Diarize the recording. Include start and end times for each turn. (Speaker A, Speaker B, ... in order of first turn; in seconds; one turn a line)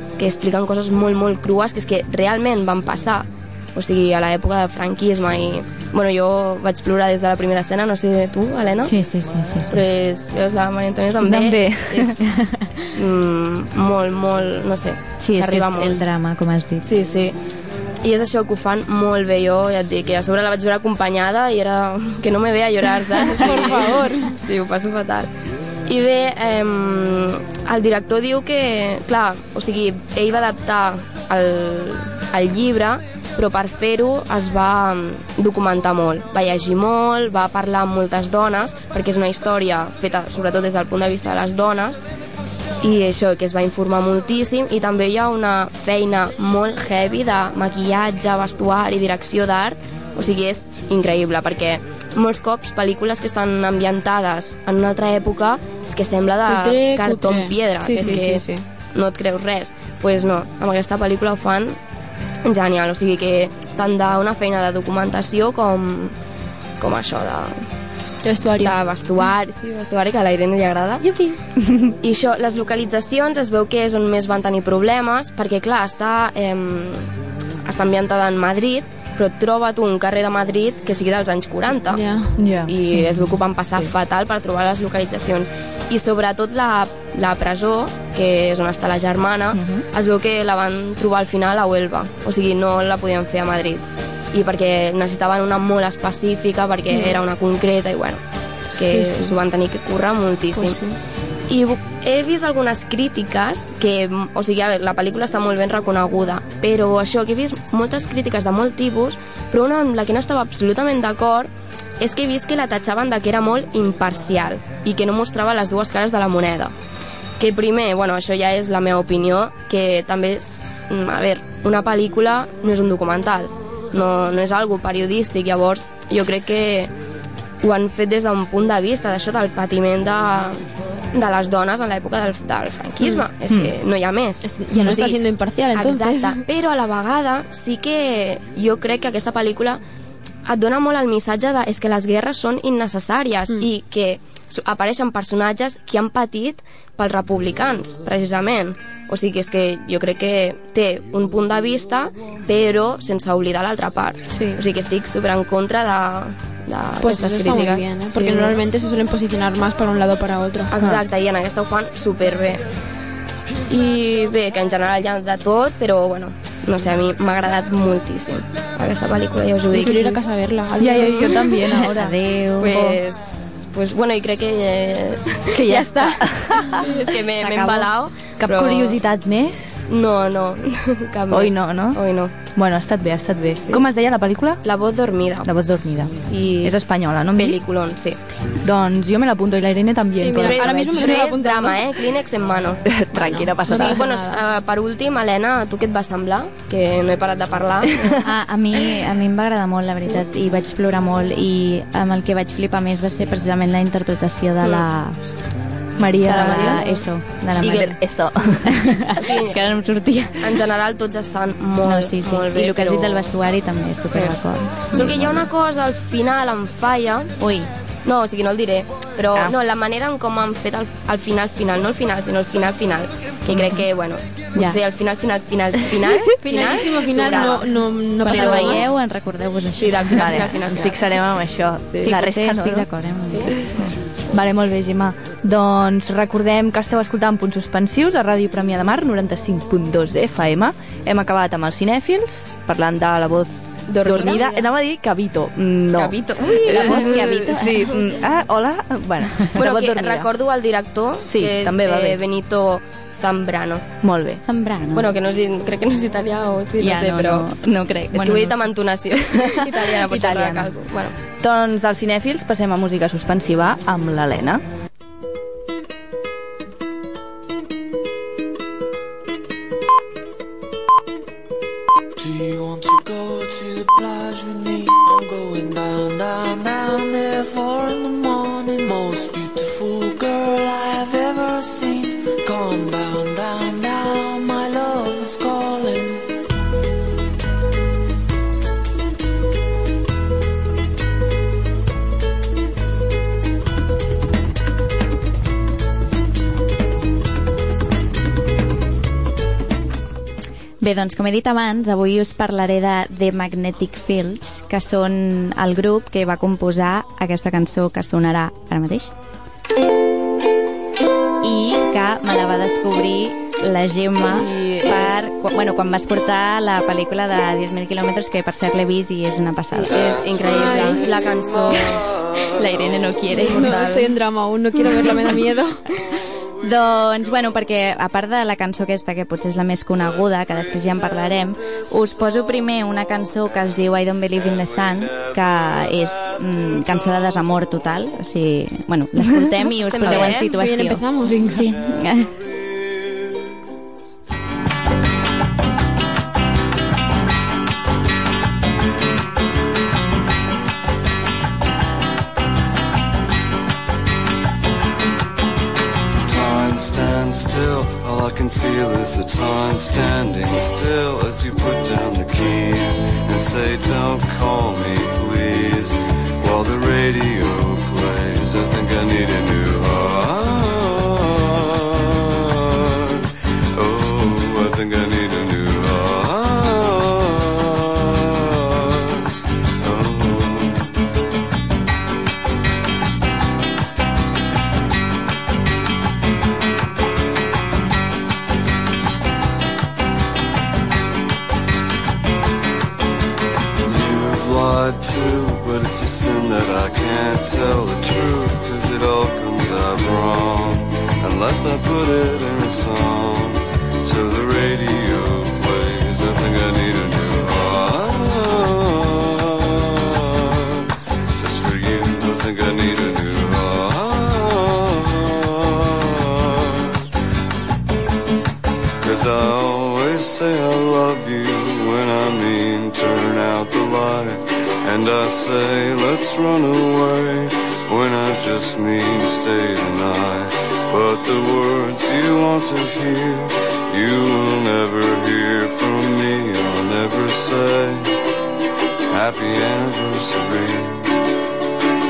Speaker A: 0.2-8.9
Speaker B: 8.8-9.8
Speaker A: 9.7-16.0
Speaker C: 11.2-12.5
Speaker B: 15.2-16.8
Speaker A: 16.8-17.4
Speaker A: 18.0-25.3
Speaker D: 23.1-24.4
Speaker A: 25.9-42.0
Speaker A: 42.8-61.8
Speaker D: 56.5-58.6
Speaker A: 62.4-66.2
Speaker A: 66.8-67.6
Speaker D: 68.2-68.8
Speaker A: 68.6-71.1
Speaker D: 71.0-71.4
Speaker A: 72.0-82.0
Speaker D: 81.9-82.4
Speaker C: 82.4-83.3
Speaker A: 82.6-98.2
Speaker C: 89.5-89.8
Speaker D: 96.9-97.2
Speaker A: 98.8-100.8
Speaker D: 98.8-99.3
Speaker D: 100.5-101.0
Speaker A: 101.5-116.7
Speaker A: 117.4-126.9
Speaker A: 127.6-135.2
Speaker D: 134.4-136.4
Speaker A: 135.7-139.8
Speaker A: 140.4-158.6
Speaker D: 154.3-154.6
Speaker D: 157.0-160.7
Speaker A: 160.7-162.6
Speaker A: 163.7-170.2
Speaker D: 169.7-171.8
Speaker C: 170.8-172.2
Speaker B: 171.8-173.0
Speaker A: 172.6-179.0
Speaker C: 175.5-176.9
Speaker C: 177.4-177.8
Speaker C: 178.4-179.7
Speaker A: 179.9-182.3
Speaker C: 181.3-182.0
Speaker C: 182.5-184.6
Speaker A: 184.6-185.5
Speaker C: 185.4-187.6
Speaker A: 186.2-186.8
Speaker A: 187.3-188.2
Speaker C: 188.6-191.2
Speaker D: 190.2-191.9
Speaker A: 190.4-198.2
Speaker C: 192.8-194.0
Speaker D: 193.1-194.4
Speaker B: 198.2-205.2
Speaker A: 204.6-204.8
Speaker C: 206.0-206.8
Speaker B: 206.2-208.0
Speaker A: 206.3-208.0
Speaker C: 207.7-208.7
Speaker B: 208.7-210.5
Speaker A: 209.2-209.6
Speaker A: 210.4-213.3
Speaker B: 211.8-215.5
Speaker A: 214.9-217.3
Speaker B: 217.4-217.7
Speaker A: 218.0-227.7
Speaker D: 226.4-229.0
Speaker A: 228.2-228.9
Speaker B: 228.2-230.5
Speaker A: 229.8-231.0
Speaker C: 230.1-232.9
Speaker A: 231.9-232.1
Speaker B: 232.0-233.9
Speaker A: 233.3-233.5
Speaker C: 234.3-250.3
Speaker A: 243.9-244.6
Speaker A: 245.9-247.2
Speaker B: 246.5-248.0
Speaker A: 249.5-253.8
Speaker C: 251.2-252.2
Speaker C: 254.0-254.4
Speaker B: 254.4-255.1
Speaker A: 254.9-261.1
Speaker B: 256.8-258.6
Speaker C: 259.8-260.7
Speaker C: 261.4-264.6
Speaker E: 272.2-286.2
Speaker B: 300.8-309.1
Speaker B: 311.4-320.1
Speaker D: 314.3-315.1
Speaker A: 319.8-322.1
Speaker F: 320.1-320.9
Speaker D: 320.4-321.1
Speaker F: 321.4-323.0
Speaker B: 322.4-323.8
Speaker D: 323.3-325.8
Speaker A: 323.3-324.1
Speaker B: 326.6-342.3
Speaker A: 339.8-340.5
Speaker D: 340.1-341.7
Speaker C: 341.3-341.5
Speaker F: 356.2-379.3
Speaker F: 379.8-380.9
Speaker F: 393.8-410.9
Speaker F: 411.4-417.0
Speaker F: 419.0-438.1
Speaker F: 439.1-441.1